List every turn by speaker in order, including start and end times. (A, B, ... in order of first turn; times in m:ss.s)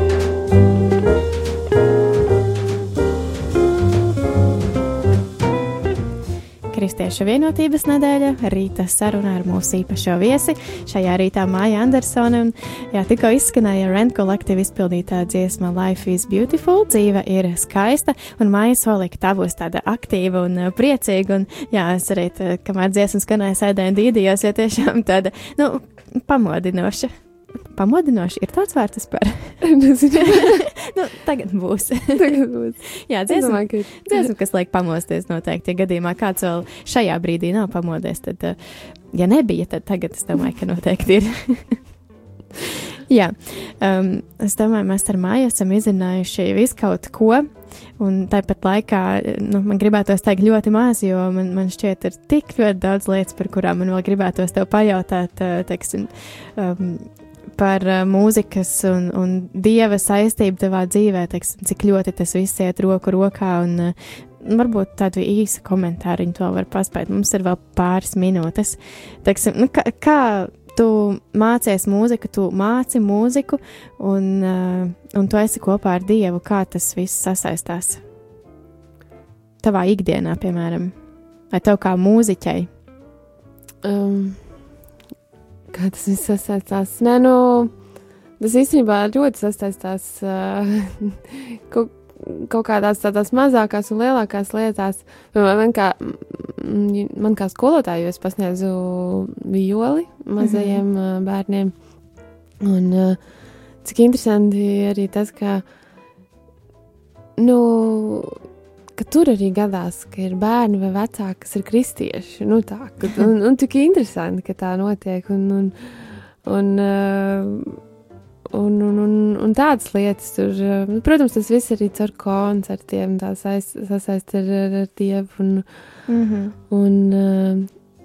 0:06.7-0:27.1 A
0:27.7-0:38.6 A
0:29.6-0:30.6 B
0:32.1-0:34.3 B
0:39.1-0:41.8 A
0:42.7-1:18.0 A
1:19.6-1:20.9 A
1:21.5-1:22.7 A
1:23.8-1:24.5 B
1:25.7-1:27.7 B
1:28.4-1:41.7 B
1:40.4-1:40.8 A
1:42.6-1:43.2 B
1:43.8-1:45.6 B
1:47.4-1:48.4 B
1:49.0-1:57.8 B
1:58.5-2:05.7 B
2:06.1-2:06.5 A
2:06.7-2:07.7 B